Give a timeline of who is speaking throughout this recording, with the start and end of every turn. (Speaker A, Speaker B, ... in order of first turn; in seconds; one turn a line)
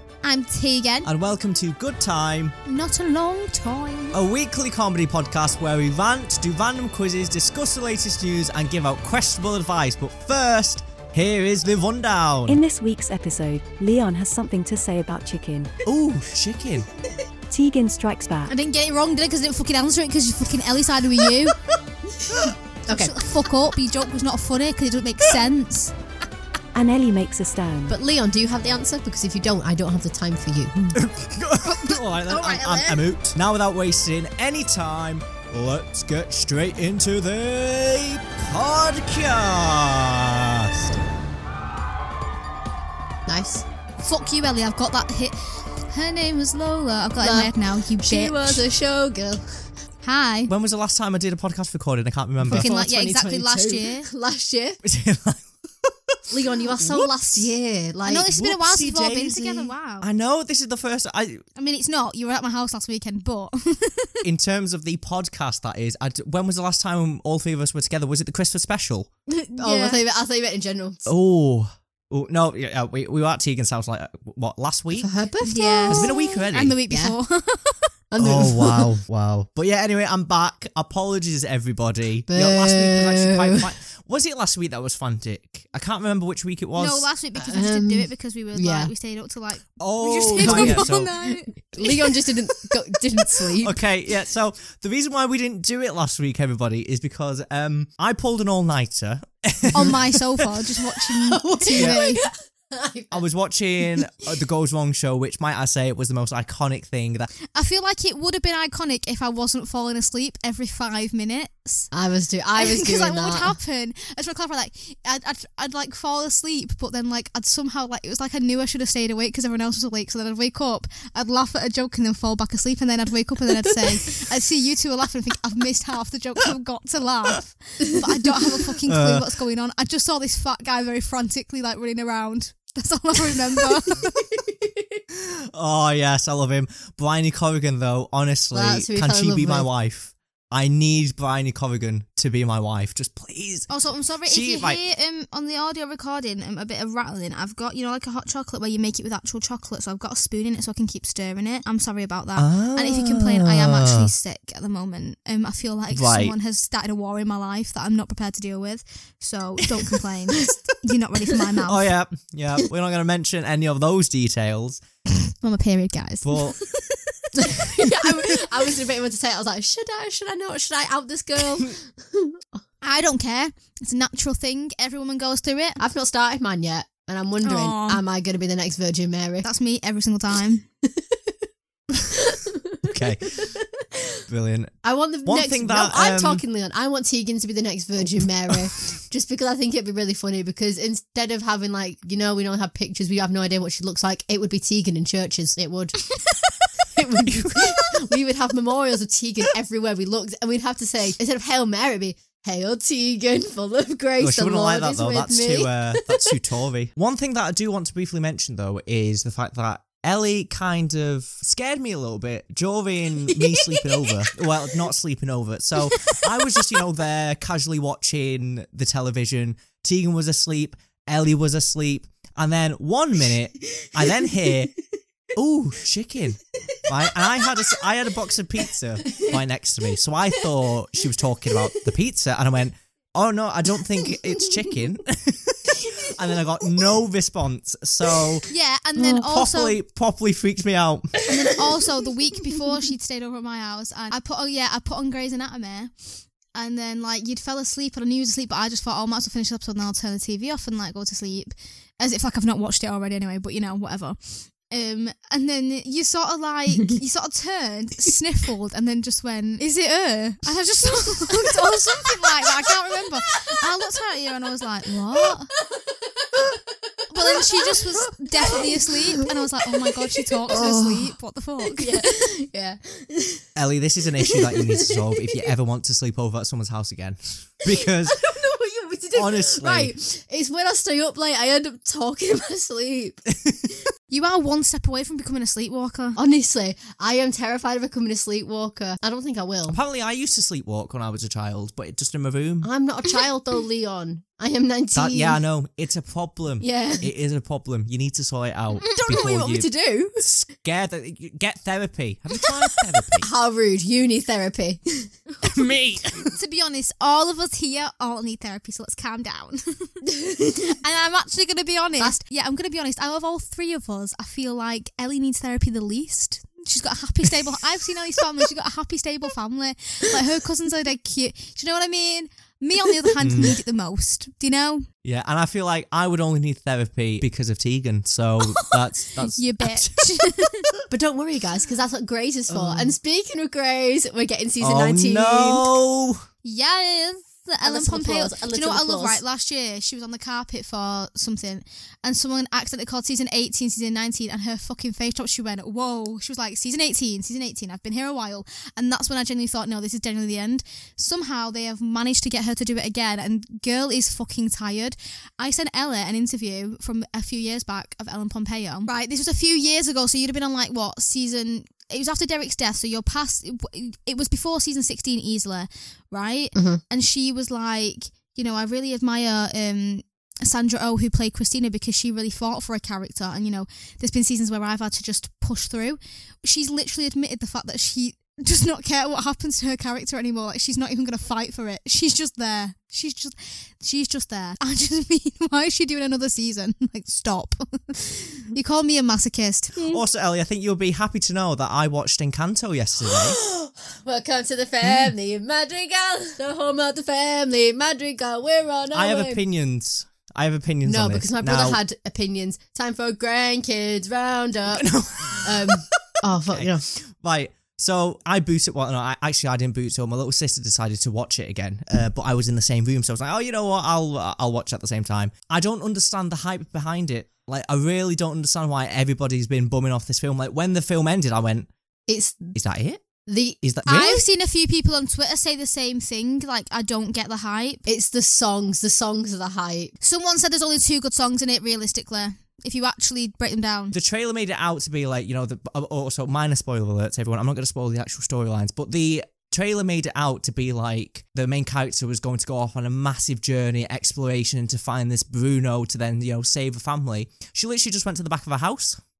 Speaker A: 0.2-1.1
Speaker B: 1.0-2.5
Speaker A: 2.6-4.2
Speaker B: 4.1-12.6
Speaker C: 12.5-15.7
Speaker B: 15.8-16.9
Speaker C: 17.5-18.5
Speaker A: 18.5-21.6
Speaker D: 22.2-23.2
Speaker A: 22.9-25.9
Speaker C: 26.7-28.0
Speaker D: 27.9-31.0
Speaker B: 30.9-40.7
Speaker D: 31.7-33.0
Speaker D: 43.2-43.6
Speaker A: 44.0-48.6
Speaker D: 47.2-49.6
Speaker A: 50.0-50.5
Speaker B: 50.5-52.7
Speaker D: 52.4-54.8
Speaker A: 52.5-54.1
Speaker B: 54.8-57.4
Speaker D: 56.3-58.3
Speaker A: 58.0-60.1
Speaker B: 58.3-61.4
Speaker A: 61.5-64.2
Speaker B: 64.2-69.1
Speaker A: 69.3-70.0
Speaker D: 69.6-71.0
Speaker B: 71.0-75.1
Speaker D: 74.9-76.2
Speaker A: 75.5-77.9
Speaker B: 75.8-76.7
Speaker D: 76.9-77.1
Speaker D: 78.1-78.9
Speaker B: 78.2-87.1
Speaker D: 82.3-83.7
Speaker A: 86.8-92.1
Speaker D: 87.3-88.9
Speaker B: 89.8-91.2
Speaker D: 90.4-93.8
Speaker B: 93.6-100.5
Speaker A: 99.7-102.2
Speaker D: 101.2-103.2
Speaker B: 103.1-107.3
Speaker D: 103.8-104.1
Speaker A: 107.5-111.9
Speaker D: 111.9-113.6
Speaker A: 112.6-134.2
Speaker B: 128.9-129.3
Speaker D: 134.3-135.0
Speaker B: 135.1-143.7
Speaker D: 138.5-139.7
Speaker A: 143.7-161.9
Speaker B: 144.2-144.8
Speaker B: 152.3-154.1
Speaker B: 155.9-156.3
Speaker B: 161.6-164.8
Speaker A: 165.2-167.0
Speaker B: 166.2-166.6
Speaker D: 167.3-172.6
Speaker A: 172.8-175.8
Speaker D: 175.8-179.5
Speaker A: 177.4-178.0
Speaker A: 179.4-180.6
Speaker D: 180.8-181.3
Speaker D: 182.0-184.2
Speaker B: 182.8-183.6
Speaker B: 184.3-186.4
Speaker D: 184.8-196.0
Speaker D: 196.9-206.3
Speaker B: 197.2-198.0
Speaker B: 204.2-224.7
Speaker D: 213.3-214.5
Speaker D: 223.8-224.5
Speaker B: 225.3-241.2
Speaker D: 226.7-227.8
Speaker D: 229.1-229.4
Speaker D: 231.4-231.8
Speaker D: 234.1-234.7
Speaker D: 235.7-236.9
Speaker D: 238.1-238.4
Speaker A: 238.5-239.8
Speaker A: 241.3-245.9
Speaker D: 241.4-241.7
Speaker A: 246.5-265.5
Speaker D: 261.4-262.7
Speaker D: 265.2-270.9
Speaker A: 267.1-272.3
Speaker B: 270.5-271.0
Speaker D: 271.6-273.4
Speaker B: 273.6-278.2
Speaker D: 274.2-275.5
Speaker D: 277.6-283.2
Speaker B: 279.1-279.9
Speaker B: 283.3-283.7
Speaker A: 284.1-286.2
Speaker D: 286.1-289.8
Speaker B: 289.7-292.7
Speaker D: 292.6-295.4
Speaker B: 294.9-303.3
Speaker D: 296.6-297.1
Speaker A: 298.8-299.1
Speaker D: 298.9-300.2
Speaker D: 303.2-305.1
Speaker B: 305.4-306.3
Speaker A: 306.3-324.9
Speaker D: 310.0-310.8
Speaker B: 323.2-323.6
Speaker B: 325.0-330.1
Speaker A: 329.2-330.7
Speaker D: 330.9-335.7
Speaker B: 332.5-332.9
Speaker B: 334.6-336.2
Speaker A: 336.4-389.8
Speaker D: 337.6-339.2
Speaker D: 366.5-366.8
Speaker B: 389.8-393.4
Speaker D: 393.0-399.4
Speaker B: 394.8-395.1
Speaker B: 398.9-401.8
Speaker D: 400.8-404.9
Speaker B: 404.7-405.9
Speaker D: 405.4-406.9
Speaker B: 406.5-421.7
Speaker D: 422.1-422.5
Speaker B: 422.5-423.1
Speaker D: 423.2-424.0
Speaker B: 423.6-424.2
Speaker A: 423.9-427.8
Speaker D: 427.9-429.9
Speaker A: 430.0-433.9
Speaker B: 433.9-449.0